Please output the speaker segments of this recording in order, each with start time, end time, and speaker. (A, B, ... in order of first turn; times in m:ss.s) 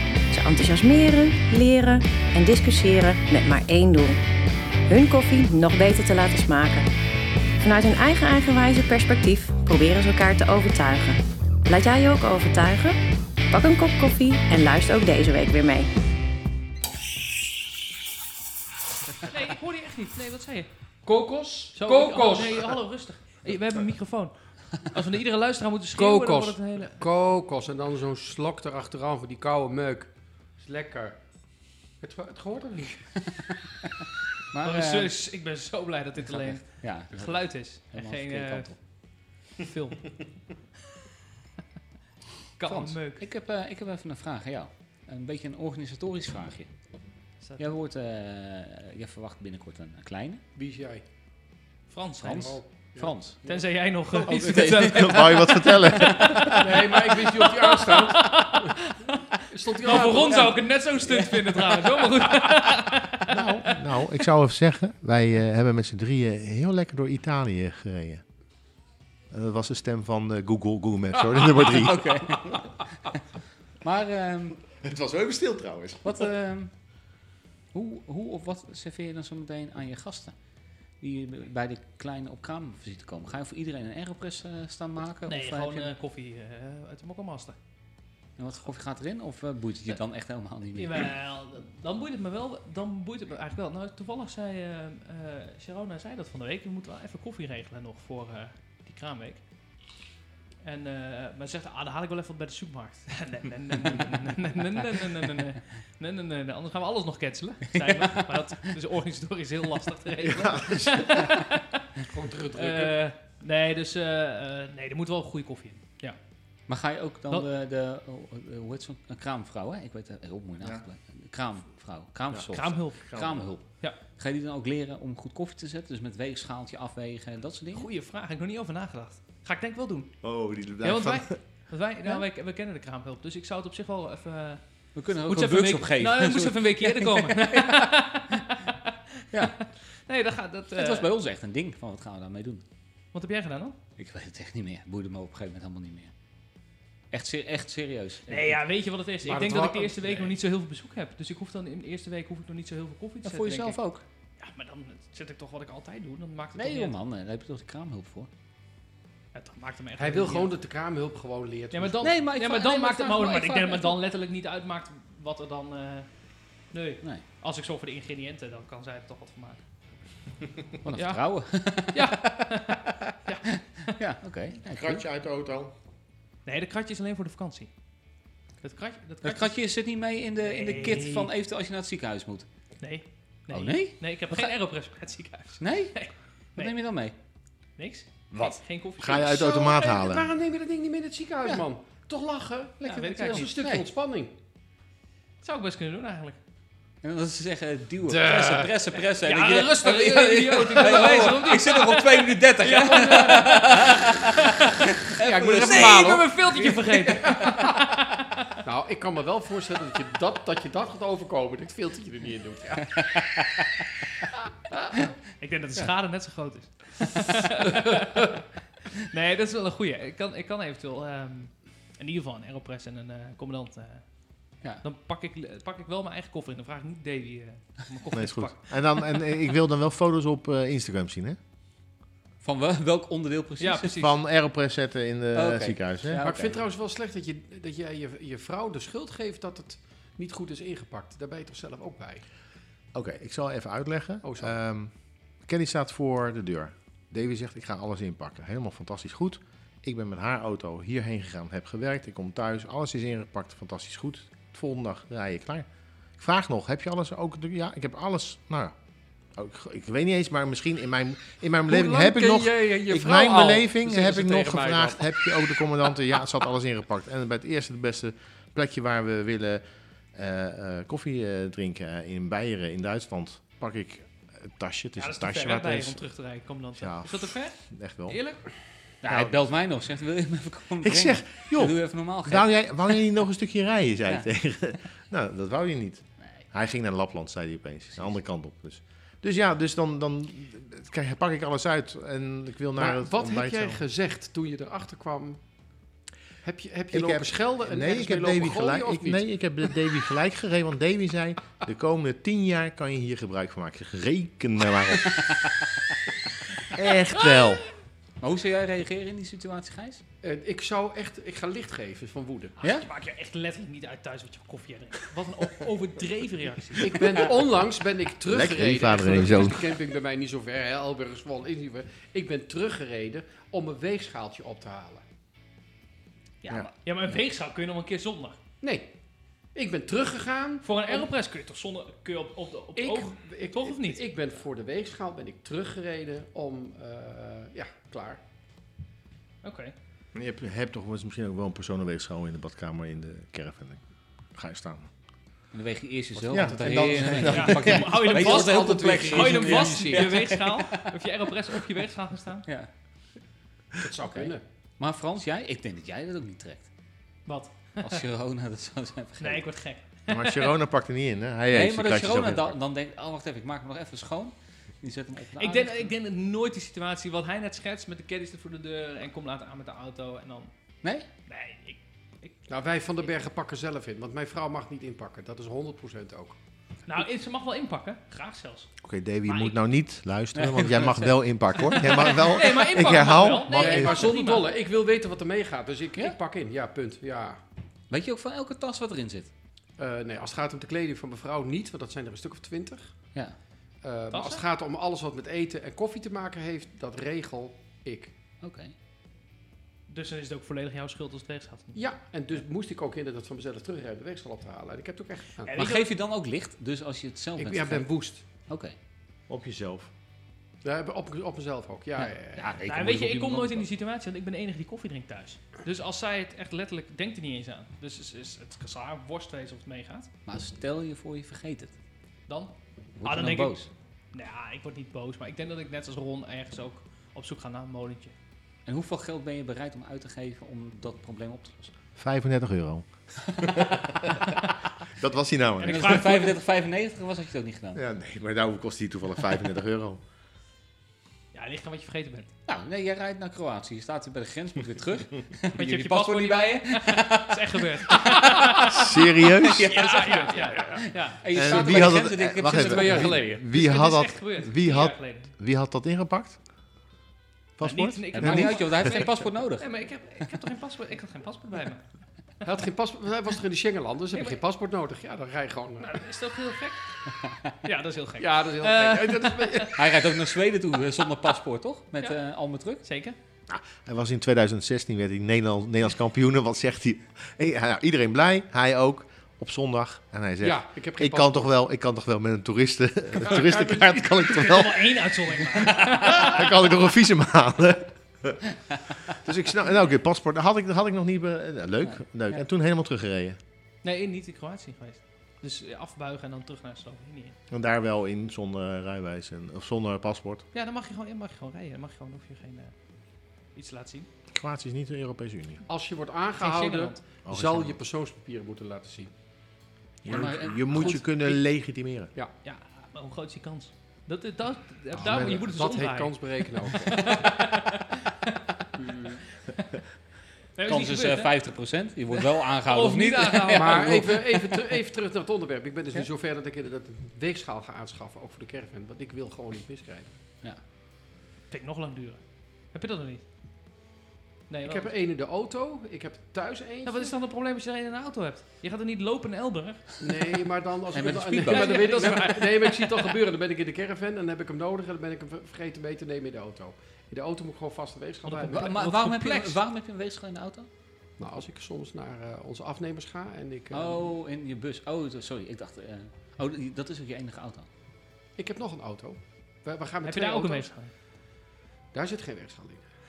0:00.3-0:04.2 A
0:04.9-0:06.9 A
0:07.6-0:13.0 A
0:13.5-0:15.9 A
0:19.2-0:20.7 B
0:21.0-0:22.7 C
0:21.7-0:27.0 B
0:26.0-0:31.2 C
0:32.0-0:33.2 C
0:33.3-0:33.9 D
0:34.5-0:35.1 D
0:34.6-0:38.7 B
0:36.2-0:38.8 D
0:39.5-0:40.2 B
0:42.6-0:43.2 B
0:42.6-0:46.7 D
0:47.4-0:47.6 B
0:47.6-0:50.4 D
0:50.6-0:51.0 C
0:51.9-0:52.6 B
0:52.2-0:53.4 D
0:52.2-0:53.6 C
0:53.4-1:04.0 B
0:54.2-0:55.4 D
0:54.3-0:56.7 E
0:56.3-0:56.5 D
0:56.5-0:58.8 C
0:59.5-1:00.6 C
0:59.9-1:00.5 D
1:01.0-1:02.7 D
1:03.3-1:08.2 E
1:09.3-1:12.6 E
1:11.4-1:13.2 D
1:13.8-1:14.6 D
1:14.7-1:16.3 E
1:16.0-1:16.7 D
1:17.7-1:20.3 D
1:21.0-1:25.9 D
1:25.3-1:27.6 B
1:28.4-1:31.1 D
1:30.8-1:39.4 B
1:40.6-1:51.8 B
1:47.9-1:48.2 D
1:50.2-1:51.2 E
1:52.1-1:53.0 C
1:52.5-1:56.2 B
1:56.7-2:07.9 D
2:02.3-2:03.4 E
2:02.5-2:03.1 B
2:07.7-2:10.1 B
2:10.2-2:11.4 E
2:10.8-2:14.6 B
2:14.9-2:18.4 D
2:15.3-2:21.1 B
2:19.3-2:19.6 D
2:20.7-2:22.6 D
2:23.1-2:23.8 B
2:24.0-2:26.1 D
2:27.1-2:28.6 D
2:28.3-2:33.8 B
2:29.2-2:30.0 C
2:33.2-2:34.0 D
2:34.4-2:36.9 B
2:36.6-2:38.3 D
2:39.3-2:40.5 B
2:40.0-2:42.1 C
2:41.7-2:46.1 B
2:42.0-2:44.0 D
2:46.7-2:49.6 B
2:50.8-2:53.1 D
2:50.9-2:51.2 B
2:51.9-2:54.0 B
2:53.8-2:55.0 D
2:54.7-2:55.7 E
2:56.4-2:57.7 B
2:58.6-2:59.5 B
2:59.2-3:02.4 D
3:00.4-3:01.3 B
3:02.8-3:06.7 B
3:03.5-3:04.5 D
3:05.6-3:06.0 D
3:06.6-3:07.1 D
3:07.8-3:09.7 B
3:08.3-3:08.6 D
3:09.0-3:10.3 E
3:09.4-3:14.3 C
3:12.8-3:13.9 D
3:12.8-3:13.5 B
3:15.4-3:16.4 B
3:17.0-3:27.6 D
3:18.1-3:18.7 C
3:19.2-3:24.9 B
3:25.1-3:26.3 C
3:25.6-3:28.3 B
3:28.6-3:33.0 C
3:32.9-3:33.6 D
3:35.4-3:38.4 B
3:39.0-3:44.0 B
3:44.8-3:49.0 B
3:48.1-3:51.4 E
3:52.4-3:54.1 D
3:53.6-3:54.1 B
3:54.0-3:56.2 E
3:55.3-3:56.6 D
3:56.2-4:02.2 C
4:02.9-4:04.9 E
4:04.2-4:04.5 C
4:05.4-4:15.6 E
4:16.2-4:18.7 E
4:19.3-4:29.6 E
4:21.7-4:25.3 C
4:30.1-4:36.0 E
4:35.0-4:37.6 B
4:36.8-4:38.2 E
4:38.1-4:38.4 B
4:39.0-4:42.9 D
4:39.0-4:39.4 E
4:40.8-4:53.8 E
4:52.8-4:55.4 C
4:56.4-4:59.2 C
4:56.9-5:05.2 E
5:05.0-5:05.9 D
5:06.7-5:07.6 E
5:08.2-5:10.0 D
5:10.2-5:12.6 C
5:12.6-5:17.2 B
5:16.8-5:25.0 C
5:18.2-5:19.8 E
5:26.4-5:26.7 D
5:26.8-5:28.4 B
5:28.6-5:28.9 C
5:29.5-5:31.1 C
5:30.6-5:34.1 B
5:32.8-5:38.2 C
5:39.4-5:39.7 B
5:40.1-5:43.8 E
5:44.3-5:44.9 E
5:45.5-5:50.8 D
5:46.2-5:48.0 E
5:46.3-5:50.1 C
5:47.3-5:52.4 B
5:53.8-5:54.4 C
5:54.0-5:56.7 D
5:57.3-5:58.0 B
5:57.8-5:59.4 D
5:59.2-6:00.5 B
6:00.1-6:02.6 E
6:01.5-6:05.9 D
6:05.4-6:10.5 B
6:11.3-6:12.4 B
6:12.5-6:16.4 C
6:16.8-6:18.7 B
6:18.8-6:24.1 E
6:19.2-6:19.6 B
6:20.3-6:22.4 D
6:22.1-6:24.5 B
6:23.5-6:27.4 C
6:27.9-6:29.3 D
6:29.8-6:32.9 C
6:33.8-6:38.1 C
6:34.1-6:34.4 B
6:38.4-6:38.7 D
6:39.9-6:41.8 B
6:41.7-6:45.7 C
6:45.4-6:45.8 B
6:45.5-6:47.9 D
6:47.4-6:48.2 C
6:48.5-6:48.7 D
6:49.3-6:49.9 E
6:50.6-6:52.4 C
6:52.0-6:53.7 D
6:52.6-7:00.1 B
7:00.2-7:01.7 D
7:02.3-7:03.6 B
7:03.0-7:03.7 D
7:04.1-7:08.1 B
7:08.6-7:11.7 D
7:12.0-7:16.1 E
7:15.6-7:16.3 B
7:15.6-7:17.8 D
7:17.7-7:20.0 E
7:21.3-7:22.3 B
7:22.5-7:33.2 D
7:25.5-7:29.0 B
7:28.7-7:29.7 E
7:29.6-7:31.2 B
7:31.3-7:36.4 E
7:31.5-7:33.4 C
7:33.2-7:35.3 B
7:37.6-7:38.5 E
7:37.6-7:41.8 B
7:38.1-7:39.7 D
7:42.4-7:46.0 C
7:44.1-7:44.4 B
7:45.8-7:47.0 B
7:47.6-7:49.8 B
7:48.2-7:49.8 C
7:49.7-7:52.8 D
7:52.8-7:53.2 B
7:53.5-8:05.0 E
8:00.4-8:01.5 C
8:03.3-8:06.5 B
8:05.5-8:08.4 E
8:09.0-8:13.4 E
8:13.8-8:17.4 B
8:17.5-8:20.4 E
8:20.5-8:22.7 B
8:23.5-8:24.1 B
8:24.3-8:25.6 E
8:25.6-8:29.1 C
8:26.4-8:27.0 B
8:27.2-8:27.8 E
8:30.0-8:32.1 E
8:30.0-8:31.1 D
8:32.4-8:38.6 B
8:34.9-8:37.3 C
8:35.0-8:35.4 E
8:38.8-8:39.2 C
8:40.5-8:41.4 B
8:40.7-8:44.7 D
8:42.1-8:44.1 B
8:43.5-8:50.1 C
8:51.5-8:52.2 B
8:52.7-8:53.2 B
8:54.5-8:54.9 B
8:54.6-8:57.1 C
8:56.8-9:00.0 B
9:00.0-9:08.7 C
9:00.9-9:02.3 D
9:01.4-9:03.1 B
9:08.2-9:09.6 B
9:08.5-9:10.7 D
9:11.2-9:14.1 C
9:13.7-9:17.7 D
9:18.4-9:20.7 C
9:20.0-9:20.9 B
9:21.9-9:22.8 C